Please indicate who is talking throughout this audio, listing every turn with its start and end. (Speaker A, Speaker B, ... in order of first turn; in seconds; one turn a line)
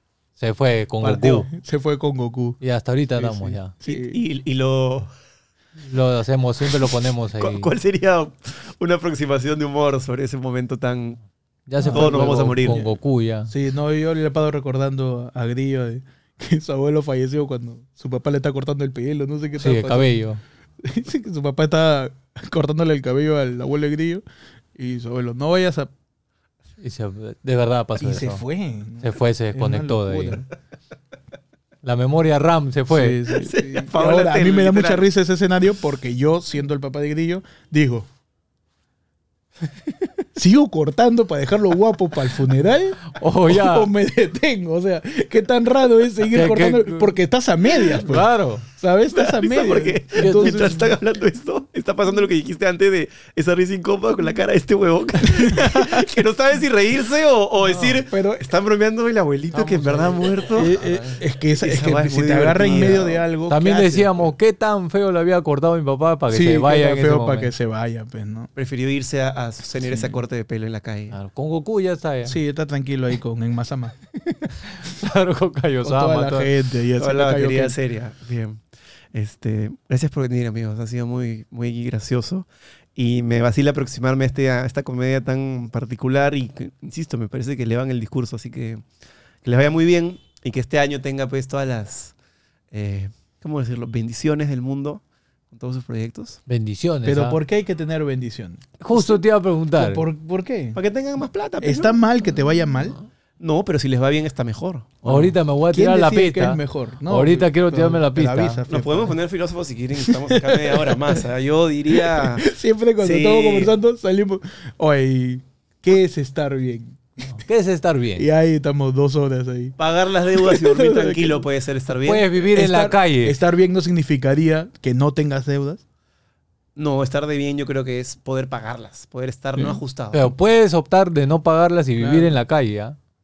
Speaker A: 0.4-1.5
Speaker B: 1.0-1.5
Speaker C: 1.5-2.6
Speaker A: 2.6-3.7
Speaker C: 3.2-4.2
Speaker B: 3.9-5.1
Speaker A: 5.8-7.7
Speaker B: 7.4-11.2
Speaker A: 11.7-13.5
Speaker C: 11.8-12.8
Speaker B: 11.9-12.9
Speaker C: 13.5-20.1
Speaker A: 19.6-20.4
Speaker C: 20.8-24.2
Speaker C: 24.8-25.9
Speaker A: 26.8-28.4
Speaker C: 28.0-30.5
Speaker A: 29.0-30.4
Speaker A: 31.8-33.2
Speaker C: 32.9-38.1
Speaker B: 33.4-35.1
Speaker C: 40.4-50.9
Speaker A: 43.1-43.9
Speaker A: 46.3-47.1
Speaker A: 48.0-48.6
Speaker B: 49.1-60.7
Speaker A: 50.2-50.8
Speaker C: 55.2-56.1
Speaker A: 57.7-58.0
Speaker C: 58.0-58.5
Speaker A: 59.5-61.2
Speaker C: 60.5-64.3
Speaker B: 61.5-63.2
Speaker A: 62.7-67.5
Speaker C: 66.3-68.5
Speaker B: 68.6-71.2
Speaker C: 69.9-70.2
Speaker A: 71.1-72.4
Speaker C: 72.3-74.0
Speaker A: 74.6-76.5
Speaker C: 75.8-77.8
Speaker B: 77.0-78.6
Speaker B: 79.1-88.8
Speaker B: 89.5-92.1
Speaker B: 92.7-96.4
Speaker A: 96.5-97.4
Speaker C: 97.0-99.2
Speaker A: 98.8-100.1
Speaker C: 99.8-100.8
Speaker B: 100.8-102.0
Speaker C: 101.6-103.0
Speaker B: 102.7-105.3
Speaker A: 105.0-108.6
Speaker C: 105.7-109.2
Speaker B: 108.7-112.5
Speaker C: 110.0-111.2
Speaker C: 111.9-117.0
Speaker B: 113.0-113.7
Speaker A: 117.2-118.3
Speaker C: 118.2-121.4
Speaker B: 119.8-122.3
Speaker A: 122.0-123.4
Speaker C: 122.4-125.8
Speaker B: 126.8-130.3
Speaker A: 130.1-133.0
Speaker C: 132.0-132.4